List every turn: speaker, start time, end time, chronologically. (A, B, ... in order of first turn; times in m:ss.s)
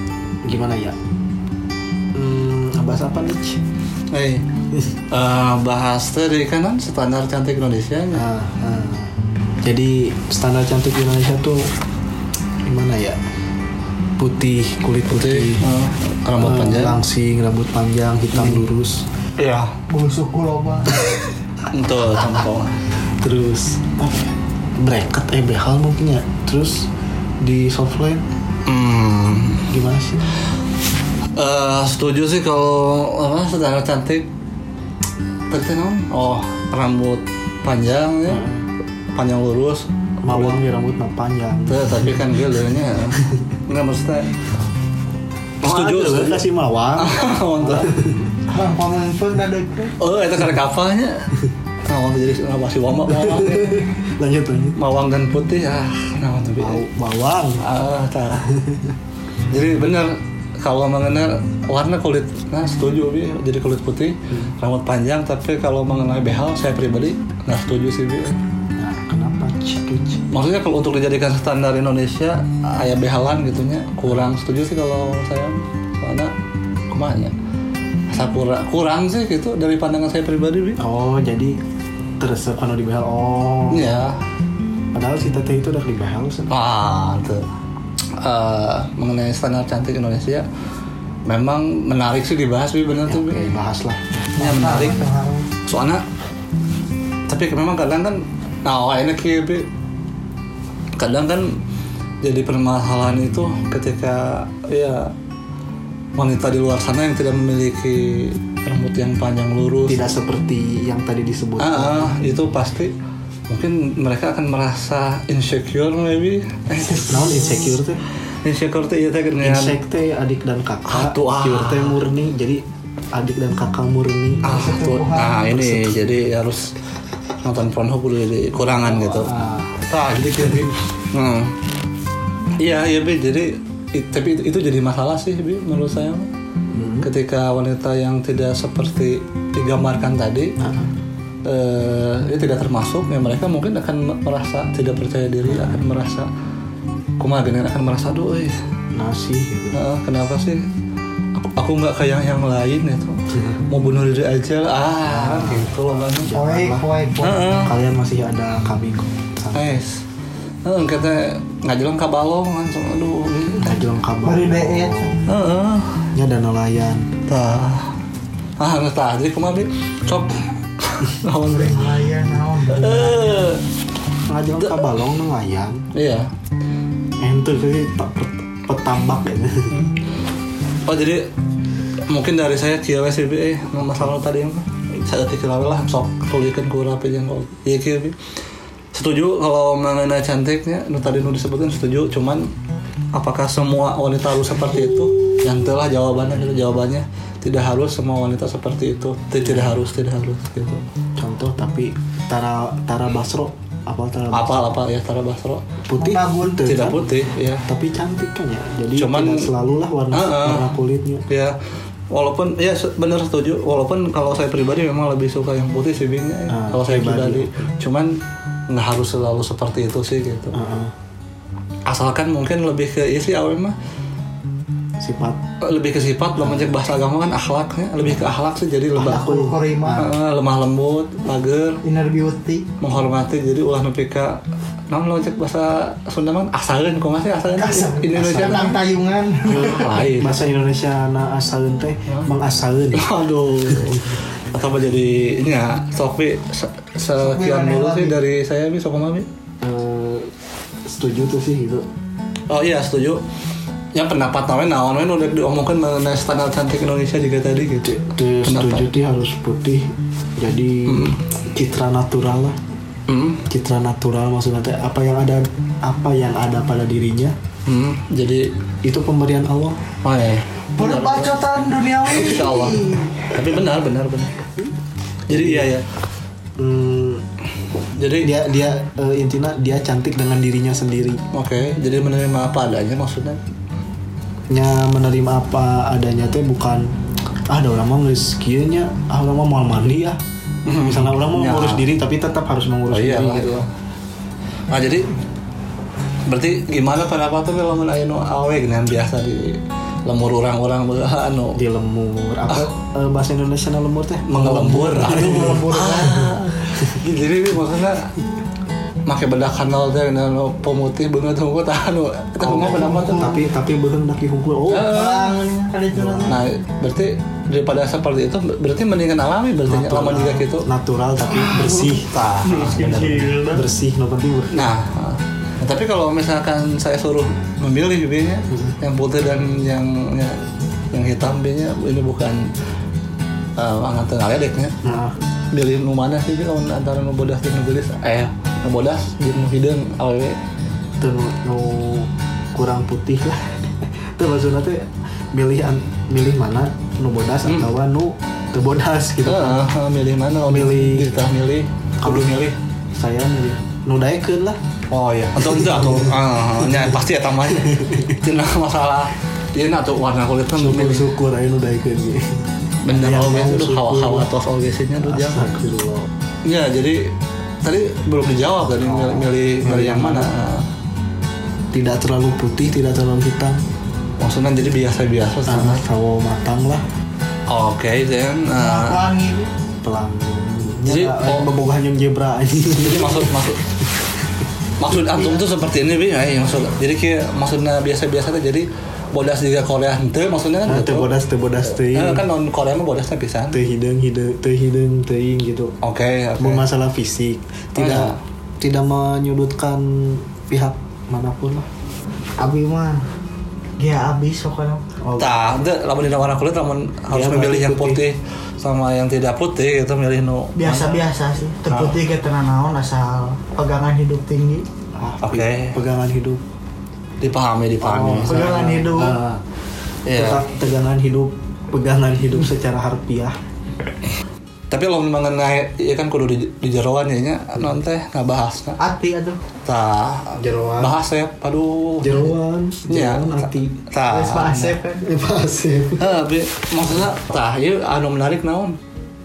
0:00.4-0:01.0 A
0:02.1-0:03.6 A
0:04.1-0:04.4 B
0:05.1-0:08.2 B
0:08.1-0:11.6 A
0:12.6-0:13.2 A
0:14.2-0:15.7 A
0:15.1-0:17.0 B
0:16.4-0:19.1 A
0:18.3-0:18.6 B
0:19.4-0:19.7 B
0:19.9-0:21.0 C
0:21.7-0:22.8 B
0:23.1-0:28.2 A
0:28.6-0:29.7 B
0:29.7-0:30.2 A
0:31.4-0:34.3 B
0:35.5-0:38.4 B
0:38.3-0:38.7 A
0:39.2-0:40.6 B
0:40.2-0:42.3 A
0:41.7-0:44.3 B
0:45.6-0:46.4 B
0:45.6-0:48.3 A
0:47.0-0:47.9 B
0:48.5-0:49.9 C
0:50.0-0:51.2 B
0:51.9-0:53.8 B
0:53.1-0:54.8 A
0:54.8-0:56.8 B
0:56.6-0:57.6 A
0:57.6-0:58.5 B
0:58.4-0:58.9 A
0:59.5-1:08.4 B
1:08.8-1:10.2 A
1:10.3-1:16.3 B
1:16.9-1:17.3 B
1:18.1-1:20.8 B
1:20.8-1:21.6 A
1:22.2-1:23.9 A
1:23.7-1:24.2 B
1:24.9-1:26.5 A
1:26.5-1:27.4 B
1:28.2-1:30.4 B
1:31.2-1:33.5 B
1:33.1-1:34.2 A
1:34.4-1:35.5 C
1:34.4-1:35.0 B
1:35.6-1:36.0 B
1:37.3-1:39.7 B
1:41.0-1:41.6 B
1:42.2-1:45.1 B
1:46.2-1:50.0 B
1:49.9-1:52.2 A
1:51.6-1:52.9 B
1:53.5-1:57.6 B
1:57.1-1:58.0 A
1:58.4-1:59.8 B
1:59.4-2:04.6 A
2:00.9-2:02.0 B
2:04.4-2:05.4 C
2:04.4-2:06.7 B
2:05.4-2:06.1 A
2:07.4-2:11.5 B
2:08.6-2:09.8 A
2:10.4-2:10.7 A
2:12.6-2:16.3 B
2:16.7-2:17.1 A
2:17.0-2:20.5 B
2:20.6-2:20.9 A
2:21.4-2:26.3 B
2:25.4-2:25.8 A
2:27.2-2:28.6 B
2:28.9-2:29.8 A
2:29.7-2:30.6 B
2:31.4-2:36.3 B
2:33.3-2:33.6 A
2:35.1-2:36.8 A
2:36.3-2:37.4 C
2:37.2-2:37.7 B
2:37.6-2:39.8 A
2:39.5-2:40.0 B
2:40.6-2:43.8 B
2:43.6-2:45.1 A
2:44.2-2:45.1 C
2:45.3-2:46.1 B
2:46.1-2:47.1 A
2:47.3-2:47.9 B
2:48.6-2:51.8 B
2:51.4-2:53.5 C
2:52.7-2:53.6 B
2:54.3-2:55.8 A
2:55.9-2:56.3 B
2:57.2-2:59.8 A
3:00.8-3:01.3 B
3:02.1-3:08.2 B
3:08.9-3:12.5 B
3:13.1-3:20.8 B
3:19.4-3:19.8 A
3:21.2-3:24.7 A
3:24.3-3:25.6 B
3:25.9-3:27.0 A
3:26.0-3:26.9 C
3:26.6-3:27.6 B
3:27.6-3:31.2 A
3:28.9-3:29.5 B
3:30.1-3:30.8 B
3:31.3-3:31.6 B
3:32.1-3:38.2 B
3:36.5-3:37.7 A
3:38.7-3:40.6 B
3:40.5-3:40.9 A
3:41.8-3:43.7 B
3:45.0-3:45.4 A
3:45.6-3:49.3 B
3:46.4-3:46.7 A
3:49.0-3:50.0 C
3:49.0-3:50.1 A
3:49.9-3:51.8 B
3:51.8-3:52.6 C
3:52.8-3:58.8 B
3:57.5-3:59.9 C
3:58.1-3:58.8 A
3:59.4-4:00.4 B
3:59.5-4:03.1 A
4:02.9-4:09.3 B
4:03.7-4:04.0 A
4:07.2-4:08.2 C
4:09.6-4:10.3 A
4:10.8-4:11.9 A
4:12.5-4:13.2 B
4:13.9-4:18.8 B
4:17.8-4:22.6 A
4:20.8-4:21.2 B
4:23.1-4:23.4 B
4:23.5-4:27.4 A
4:27.7-4:28.5 B
4:28.8-4:29.8 A
4:30.0-4:31.3 B
4:30.8-4:33.3 C
4:32.1-4:34.4 B
4:35.3-4:35.7 A
4:35.3-4:35.8 B
4:36.6-4:37.2 A
4:38.0-4:38.4 B
4:38.2-4:41.2 A
4:41.3-4:43.4 B
4:44.5-4:46.9 A
4:47.5-4:50.2 A
4:50.6-4:51.8 B
4:50.8-4:53.6 A
4:52.9-4:53.7 B
4:54.7-4:55.1 B
4:56.2-5:01.6 B
5:01.5-5:05.6 A
5:04.2-5:08.1 B
5:05.0-5:06.4 C
5:09.0-5:13.3 B
5:12.4-5:15.0 A
5:12.5-5:13.4 C
5:14.7-5:15.4 B
5:14.7-5:16.4 C
5:15.9-5:16.4 A
5:16.3-5:20.6 B
5:19.7-5:24.7 A
5:21.2-5:23.6 C
5:22.1-5:23.0 B
5:24.5-5:32.5 B
5:28.5-5:28.7 A
5:33.6-5:34.7 B
5:34.8-5:35.2 A
5:35.5-5:40.4 B
5:41.0-5:49.6 A
5:49.2-5:52.6 B
5:50.5-5:51.1 A
5:52.0-5:54.6 A
5:54.9-6:01.1 B
5:55.4-5:57.0 A
5:57.5-5:58.1 A
6:00.6-6:04.3 A
6:02.8-6:05.4 B
6:05.0-6:06.1 A
6:06.4-6:10.6 B
6:08.7-6:10.3 A
6:11.7-6:13.6 A
6:14.2-6:15.8 B
6:15.5-6:16.8 A
6:17.5-6:19.0 B
6:18.5-6:19.5 C
6:19.8-6:24.0 A
6:20.8-6:21.5 B
6:22.7-6:23.6 B
6:24.8-6:31.1 B
6:24.9-6:25.4 A
6:30.6-6:32.2 A
6:31.9-6:33.6 B
6:33.5-6:35.7 A
6:35.8-6:36.6 B
6:36.4-6:41.7 A
6:37.8-6:38.2 B
6:42.4-6:43.0 C
6:43.8-6:44.8 C
6:45.0-6:45.4 A
6:45.2-6:51.0 B
6:47.1-6:48.0 A
6:50.6-6:54.6 C
6:51.7-6:51.9 B
6:54.9-6:56.4 A
6:55.2-6:55.8 B
6:57.2-6:58.5 B
6:57.8-6:59.4 A
6:58.3-6:59.2 C
7:00.0-7:00.4 B
7:00.1-7:03.3 A
7:04.7-7:08.8 B
7:08.8-7:09.4 C
7:09.6-7:12.3 B
7:10.3-7:10.9 A
7:12.0-7:13.7 A
7:12.9-7:14.8 B
7:14.1-7:15.0 C
7:15.0-7:16.1 A
7:16.0-7:18.8 B